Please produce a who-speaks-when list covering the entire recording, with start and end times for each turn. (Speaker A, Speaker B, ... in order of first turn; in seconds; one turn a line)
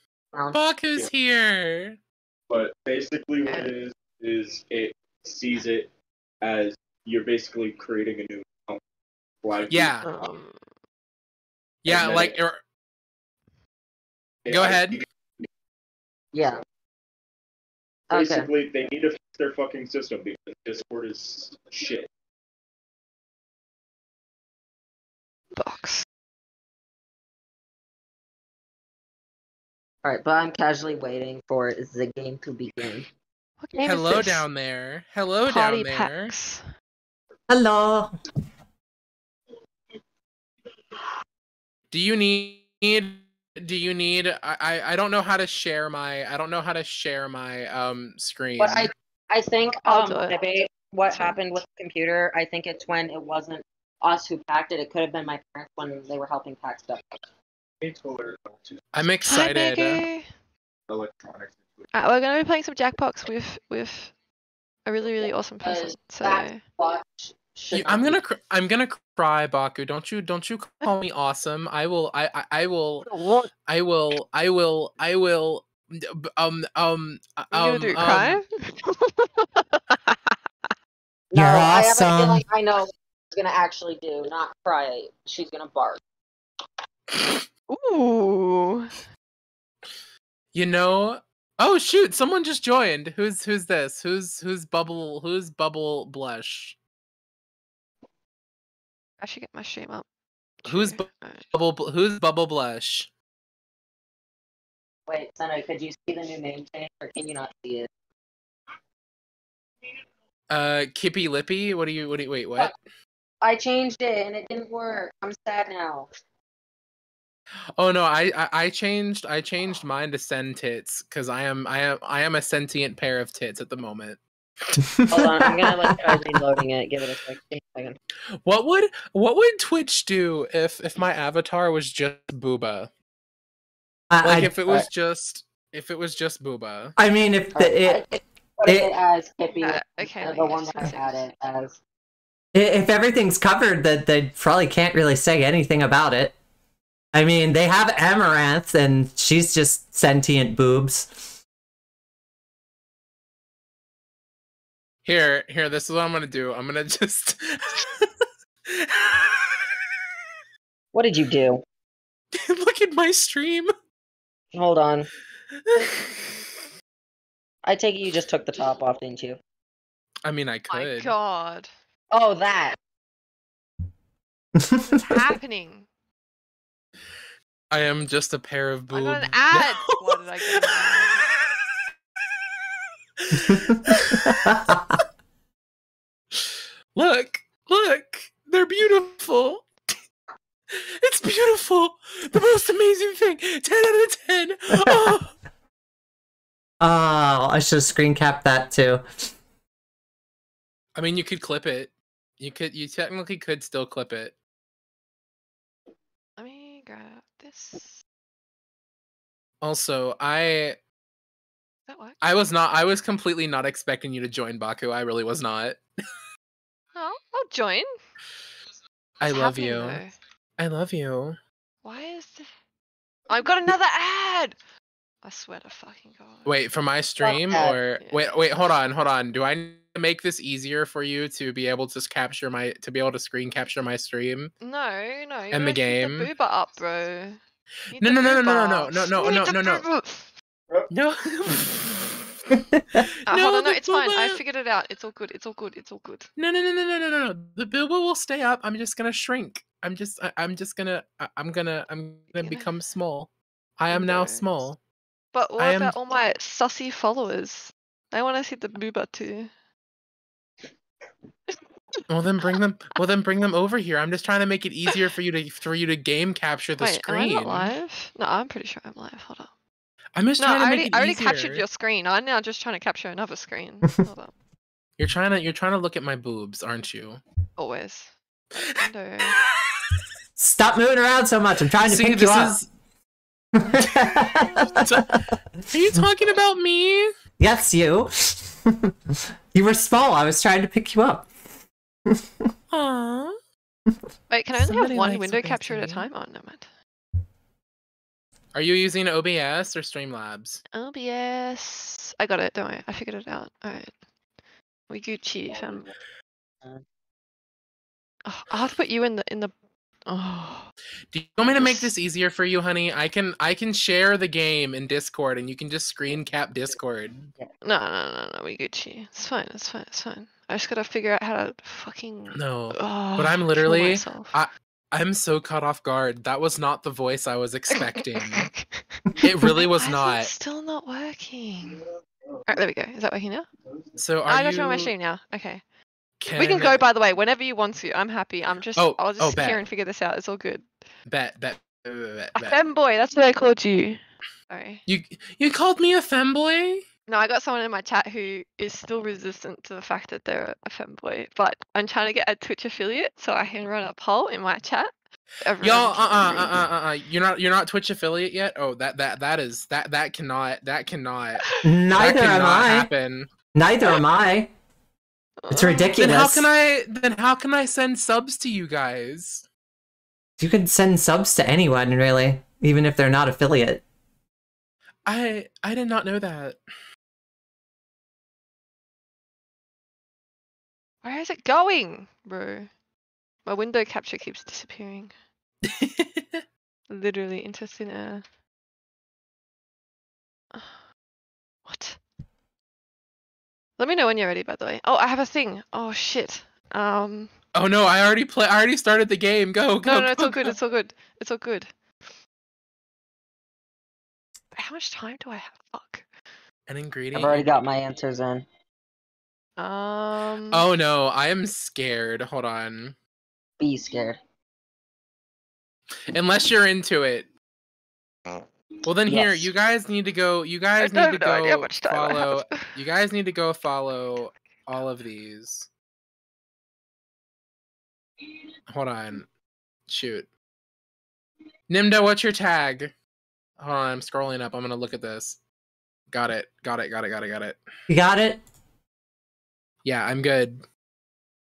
Speaker A: 0.3-0.6
Speaker B: 0.5-2.0
Speaker C: 2.5-8.8
Speaker D: 3.4-3.7
Speaker C: 9.4-10.0
Speaker B: 9.7-10.1
Speaker D: 10.0-10.6
Speaker B: 11.8-12.6
Speaker C: 11.8-12.4
Speaker C: 14.4-15.0
Speaker B: 14.5-15.0
Speaker A: 16.3-16.6
Speaker A: 18.1-18.5
Speaker C: 18.1-22.1
Speaker D: 25.6-26.0
Speaker A: 30.0-33.0
Speaker D: 33.6-34.5
Speaker B: 33.8-36.3
Speaker D: 35.5-36.6
Speaker E: 37.5-38.1
Speaker B: 41.9-48.9
Speaker A: 48.6-57.0
Speaker D: 49.9-50.4
Speaker C: 57.8-58.8
Speaker B: 58.9-60.0
Speaker D: 59.3-60.2
Speaker C: 60.9-61.6
Speaker D: 61.9-64.1
Speaker D: 64.8-66.6
Speaker A: 65.2-68.2
Speaker B: 67.7-73.1
Speaker A: 73.0-73.5
Speaker B: 73.7-78.4
Speaker D: 77.5-80.3
Speaker A: 81.3-86.0
Speaker E: 81.3-82.4
Speaker D: 87.7-89.0
Speaker B: 90.5-96.8
Speaker D: 99.2-100.0
Speaker D: 100.6-101.4
Speaker B: 100.7-103.1
Speaker A: 105.1-107.9
Speaker B: 110.5-112.7
Speaker A: 113.4-116.1
Speaker B: 117.8-124.2
Speaker E: 124.8-126.1
Speaker A: 125.1-128.0
Speaker B: 128.4-132.9
Speaker E: 134.1-134.8
Speaker B: 134.2-136.9
Speaker E: 137.0-138.1
Speaker A: 137.5-141.8
Speaker D: 139.5-141.2
Speaker E: 142.5-146.3
Speaker E: 147.1-151.3
Speaker B: 155.0-158.1
Speaker B: 158.7-159.6
Speaker A: 160.9-161.6
Speaker B: 162.3-163.7
Speaker A: 164.5-165.1
Speaker B: 165.7-166.2
Speaker A: 167.6-169.4
Speaker B: 170.2-171.1
Speaker D: 170.7-171.7
Speaker A: 172.1-172.8
Speaker E: 174.6-175.2
Speaker D: 174.8-175.9
Speaker B: 177.7-181.4
Speaker D: 178.9-181.2
Speaker B: 183.2-184.6
Speaker E: 183.3-185.0
Speaker B: 186.9-189.9
Speaker B: 190.7-195.3
Speaker E: 194.8-195.1
Speaker E: 196.8-199.0
Speaker B: 200.9-204.3
Speaker D: 206.4-208.0
Speaker B: 209.6-210.8
Speaker D: 211.9-212.2
Speaker B: 212.2-215.8
Speaker D: 216.9-217.8
Speaker B: 219.2-220.0
Speaker D: 219.3-220.1
Speaker B: 220.6-221.4
Speaker D: 221.8-222.4
Speaker D: 223.3-224.6
Speaker D: 225.2-226.5
Speaker B: 226.4-234.5
Speaker A: 227.2-227.8
Speaker D: 228.0-228.3
Speaker D: 234.6-237.4
Speaker B: 235.5-236.3
Speaker D: 237.9-240.3
Speaker B: 238.0-239.8
Speaker B: 240.9-242.2
Speaker E: 242.5-243.0
Speaker D: 243.3-246.3
Speaker B: 243.3-244.4
Speaker B: 246.3-254.8
Speaker D: 252.3-252.7
Speaker D: 253.9-254.6
Speaker D: 255.3-259.5
Speaker B: 255.6-255.9
Speaker B: 262.1-267.7
Speaker D: 266.8-269.5
Speaker B: 270.1-271.6
Speaker D: 270.4-274.3
Speaker B: 275.0-277.2
Speaker D: 277.6-278.1
Speaker D: 278.7-279.3
Speaker E: 280.4-282.6
Speaker B: 281.9-282.7
Speaker E: 283.6-285.0
Speaker B: 284.8-287.1
Speaker E: 287.4-288.9
Speaker E: 289.5-291.3
Speaker E: 292.1-292.5
Speaker B: 292.7-293.3
Speaker D: 294.3-296.6
Speaker B: 294.5-296.1
Speaker B: 298.5-300.6
Speaker D: 300.7-303.9
Speaker D: 304.9-305.9
Speaker D: 308.2-309.5
Speaker D: 310.1-310.7
Speaker B: 311.1-317.3
Speaker D: 311.4-311.9
Speaker D: 317.6-324.3
Speaker B: 322.3-328.4
Speaker D: 327.7-331.8
Speaker B: 329.2-330.3
Speaker D: 332.5-333.4
Speaker B: 334.0-334.9
Speaker D: 334.3-335.6
Speaker B: 336.2-336.8
Speaker D: 336.3-340.7
Speaker B: 338.8-339.6
Speaker B: 341.1-342.6
Speaker D: 342.4-344.8
Speaker B: 344.9-346.8
Speaker D: 347.1-354.9
Speaker D: 355.4-356.6
Speaker B: 355.6-363.3
Speaker E: 361.6-362.9
Speaker E: 363.6-364.5
Speaker D: 365.4-366.0
Speaker E: 365.5-366.5
Speaker B: 366.0-369.4
Speaker E: 370.4-373.8
Speaker B: 375.1-376.6
Speaker D: 381.0-382.7
Speaker D: 383.4-385.1
Speaker B: 385.6-386.4
Speaker D: 386.9-388.2
Speaker D: 391.6-392.0
Speaker D: 393.8-397.3
Speaker B: 397.5-400.5
Speaker D: 399.8-401.7
Speaker D: 404.5-406.1
Speaker B: 406.7-407.5
Speaker A: 407.1-408.4
Speaker D: 409.6-410.7
Speaker B: 410.5-412.9
Speaker A: 413.6-414.2
Speaker B: 416.1-417.3
Speaker B: 418.8-425.7
Speaker A: 419.1-419.5
Speaker D: 420.8-422.6
Speaker B: 428.7-429.3
Speaker B: 429.9-430.3
Speaker B: 431.7-432.9
Speaker B: 433.6-435.4
Speaker B: 436.1-437.6
Speaker E: 437.9-438.4
Speaker B: 439.8-440.6